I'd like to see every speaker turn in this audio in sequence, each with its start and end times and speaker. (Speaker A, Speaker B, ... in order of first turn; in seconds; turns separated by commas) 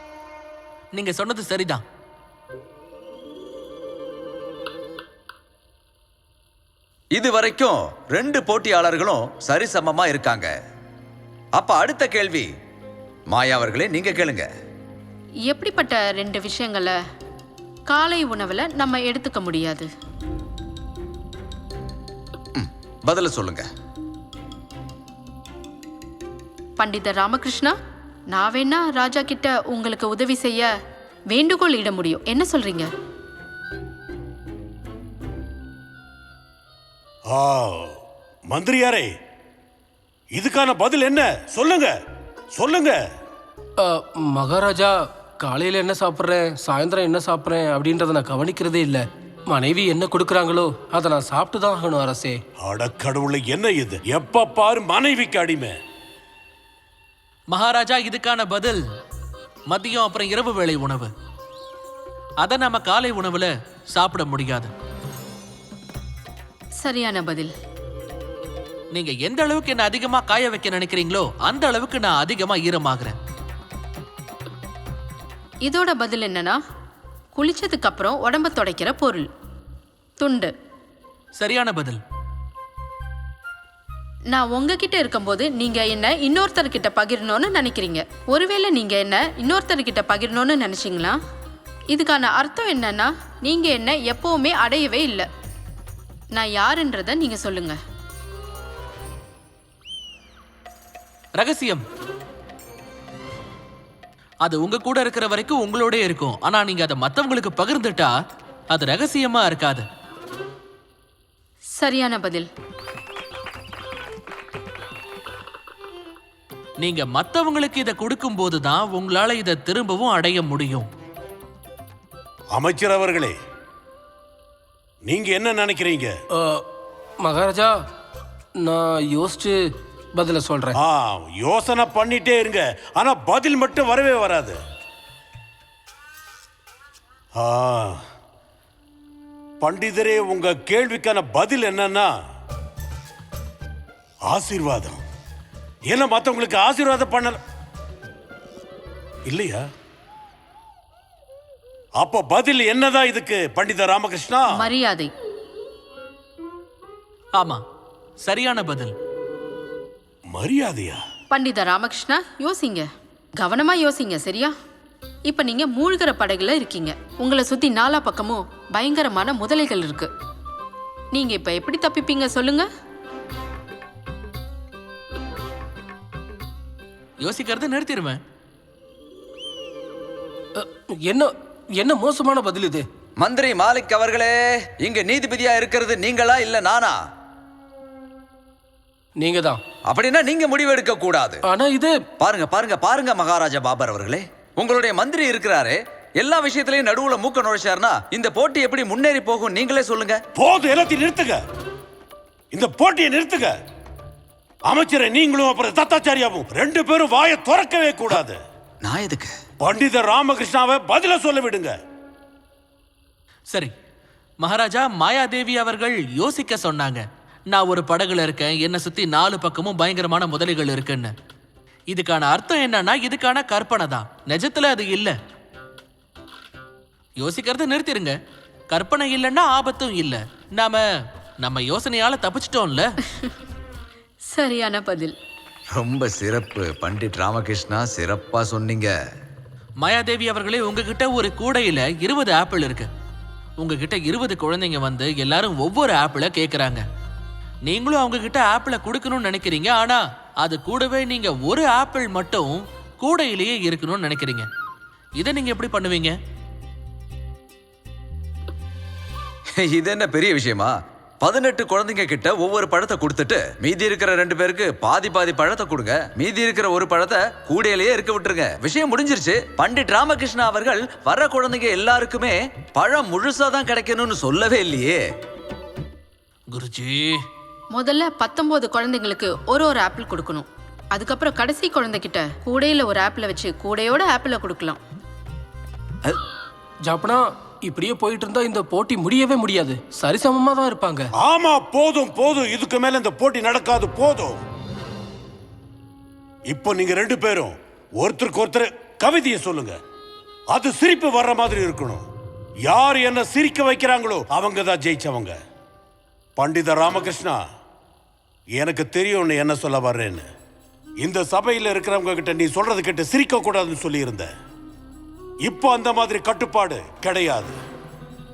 Speaker A: 0.9-1.8, Speaker B: 7.1-10.5, Speaker B: 11.6-12.5, Speaker B: 13.3-14.5, Speaker C: 15.4-16.9, Speaker C: 17.9-19.9, Speaker B: 22.5-23.6, Speaker C: 26.8-27.7, Speaker C: 28.3-30.7, Speaker C: 31.3-32.9, Speaker D: 37.3-37.9, Speaker D: 38.5-39.1, Speaker D: 40.3-41.9, Speaker D: 42.5-43.0, Speaker E: 43.8-52.4, Speaker D: 52.6-55.7, Speaker A: 57.5-58.8, Speaker A: 59.7-61.1, Speaker A: 62.4-64.7, Speaker C: 66.8-67.5, Speaker A: 68.9-73.1, Speaker C: 75.6-76.6, Speaker C: 77.3-79.3, Speaker C: 80.2-80.5, Speaker A: 81.4-82.0, Speaker C: 84.3-91.2, Speaker C: 91.9-95.3, Speaker C: 96.3-97.8, Speaker A: 101.4-101.8, Speaker A: 104.4-108.1, Speaker A: 108.7-109.8, Speaker C: 111.8-112.5, Speaker A: 116.8-120.9, Speaker D: 122.5-123.3, Speaker D: 125.1-126.1, Speaker E: 126.3-126.6, Speaker E: 127.2-127.7, Speaker E: 128.6-129.6, Speaker E: 130.1-130.8, Speaker D: 130.8-134.6, Speaker D: 137.4-138.0, Speaker D: 139.6-142.1, Speaker D: 144.3-145.0, Speaker D: 145.9-147.4, Speaker D: 149.3-149.6, Speaker D: 152.0-154.6, Speaker C: 154.6-155.1, Speaker A: 158.2-158.9, Speaker D: 160.3-161.0, Speaker C: 161.3-162.8, Speaker C: 163.4-164.5, Speaker C: 165.3-170.1, Speaker C: 171.1-172.7, Speaker A: 177.2-178.2, Speaker E: 180.6-182.8, Speaker B: 183.2-187.0, Speaker E: 189.2-189.6, Speaker B: 189.9-191.4, Speaker E: 191.4-191.9, Speaker B: 192.2-200.2, Speaker D: 200.4-201.4, Speaker D: 202.5-203.5, Speaker D: 204.7-208.4, Speaker B: 208.8-209.3, Speaker D: 209.6-211.7, Speaker A: 214.4-221.1, Speaker A: 221.9-225.1, Speaker A: 227.2-228.1, Speaker A: 228.7-230.8, Speaker A: 231.4-232.9, Speaker C: 234.3-235.1, Speaker B: 235.7-238.9, Speaker A: 239.8-242.9, Speaker A: 243.6-246.8, Speaker A: 247.7-254.4, Speaker A: 255.2-256.1, Speaker B: 259.6-275.0, Speaker A: 276.5-277.2, Speaker C: 277.7-284.8, Speaker E: 286.8-291.1, Speaker D: 291.2-294.4, Speaker D: 296.5-299.8, Speaker D: 300.5-302.1, Speaker D: 302.7-305.4, Speaker D: 306.4-307.4, Speaker D: 308.6-310.2, Speaker D: 311.0-314.3, Speaker D: 315.4-317.6